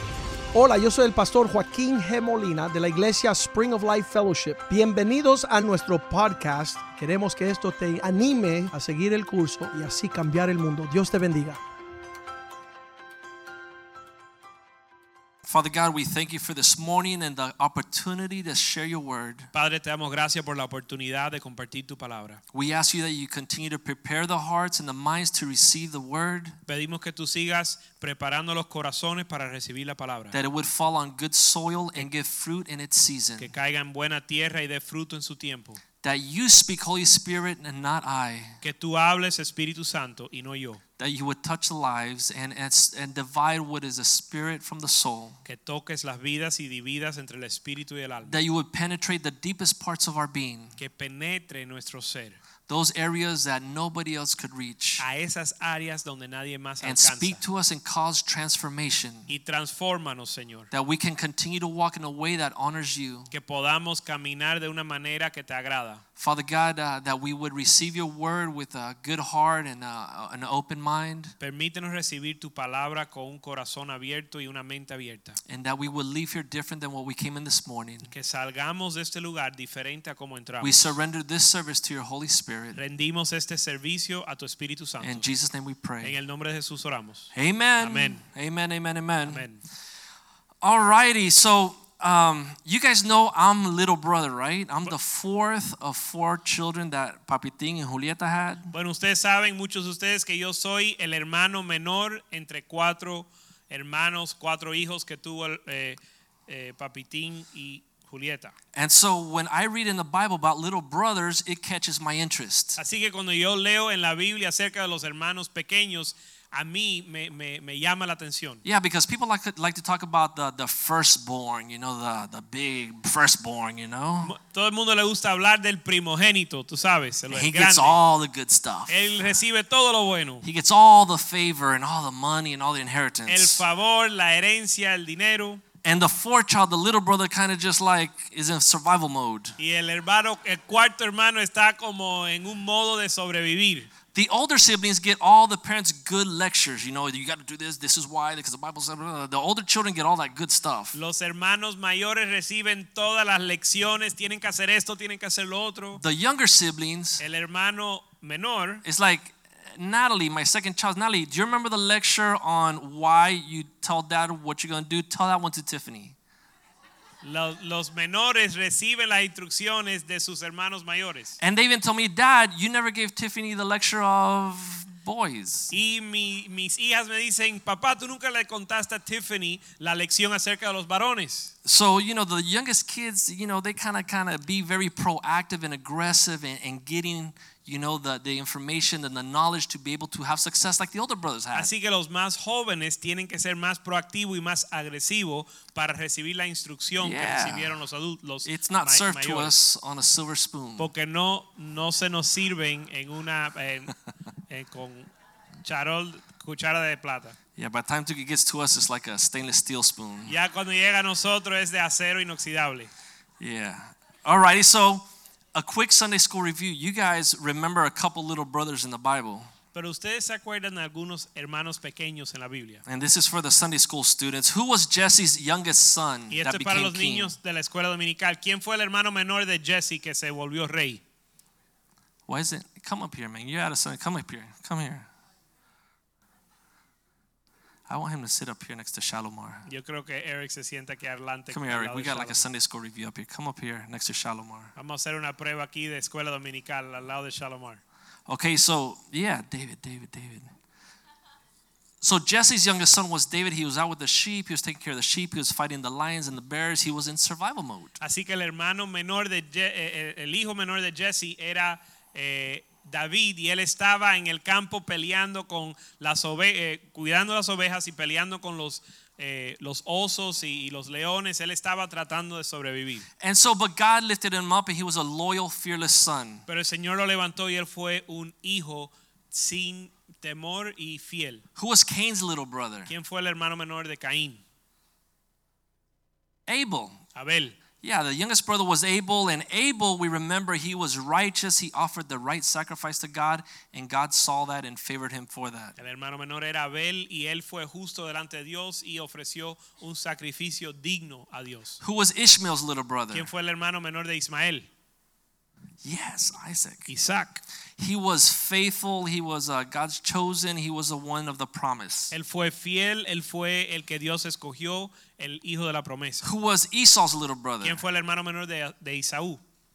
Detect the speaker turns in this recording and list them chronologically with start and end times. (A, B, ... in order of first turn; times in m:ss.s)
0:00.5-0:11.6 A
0:15.4-0:19.5 B
0:19.5-0:22.4 C
0:22.5-0:26.6 B
0:26.7-0:30.4 C
0:30.3-0:33.5 B
0:33.4-0:35.8 C
0:36.0-0:38.6 B
0:38.6-0:40.8 C
0:41.0-0:45.4 B
0:45.4-0:48.4 C
0:48.2-0:50.8 B
0:50.8-0:52.4 C
0:52.7-0:55.0 B
0:55.0-0:57.4 C
0:56.8-0:59.3 B
0:59.3-1:00.7 C
1:00.7-1:03.3 B
1:03.3-1:06.0 C
1:06.2-1:11.3 B
1:11.4-1:15.4 C
1:15.4-1:18.1 B
1:18.1-1:20.9 C
1:20.6-1:22.8 B
1:22.7-1:25.3 C
1:25.0-1:26.2 B
1:26.0-1:28.2 C
1:27.3-1:29.4 B
1:29.3-1:29.6 C
1:30.6-1:38.7 B
1:38.7-1:48.5 C
1:48.7-1:52.8 B
1:52.8-1:58.6 C
1:58.6-2:04.4 B
2:04.2-2:08.0 C
2:07.3-2:09.1 B
2:08.9-2:10.4 C
2:10.4-2:13.6 B
2:13.3-2:15.6 C
2:15.8-2:19.6 B
2:19.6-2:23.9 C
2:24.1-2:31.0 B
2:30.9-2:36.0 C
2:36.0-2:37.2 B
2:37.2-2:38.8 C
2:38.8-2:46.1 B
2:47.2-2:51.4 C
2:51.4-2:55.7 B
2:55.7-3:01.5 C
3:01.6-3:11.7 B
3:11.5-3:19.5 C
3:17.0-3:17.8 B
3:18.4-3:20.9 B
3:20.8-3:23.9 C
3:24.5-3:25.1 C
3:25.6-3:27.4 C
3:27.6-3:30.3 B
3:30.3-3:32.9 C
3:33.4-3:39.5 B
3:39.7-3:42.8 C
3:42.8-3:47.3 B
3:46.3-3:51.0 C
3:52.3-3:55.1 B
3:57.9-3:59.7 B
3:59.7-4:02.5 C
4:01.5-4:04.7 B
4:04.8-4:07.8 C
4:08.3-4:10.5 B
4:12.0-4:18.0 B
4:18.0-4:33.1 C
4:33.2-4:36.4 B
4:36.5-4:41.4 C
4:41.6-4:42.9 B
4:42.9-4:44.4 C
4:46.5-4:47.0 B
4:47.1-4:47.6 C
4:47.8-4:55.8 B
4:55.8-5:01.8 C
5:01.8-5:03.3 B
5:03.1-5:04.6 C
5:05.8-5:06.9 B
5:06.9-5:07.4 C
5:07.8-5:12.1 B
5:12.1-5:16.2 C
5:16.2-5:17.8 B
5:17.6-5:19.4 C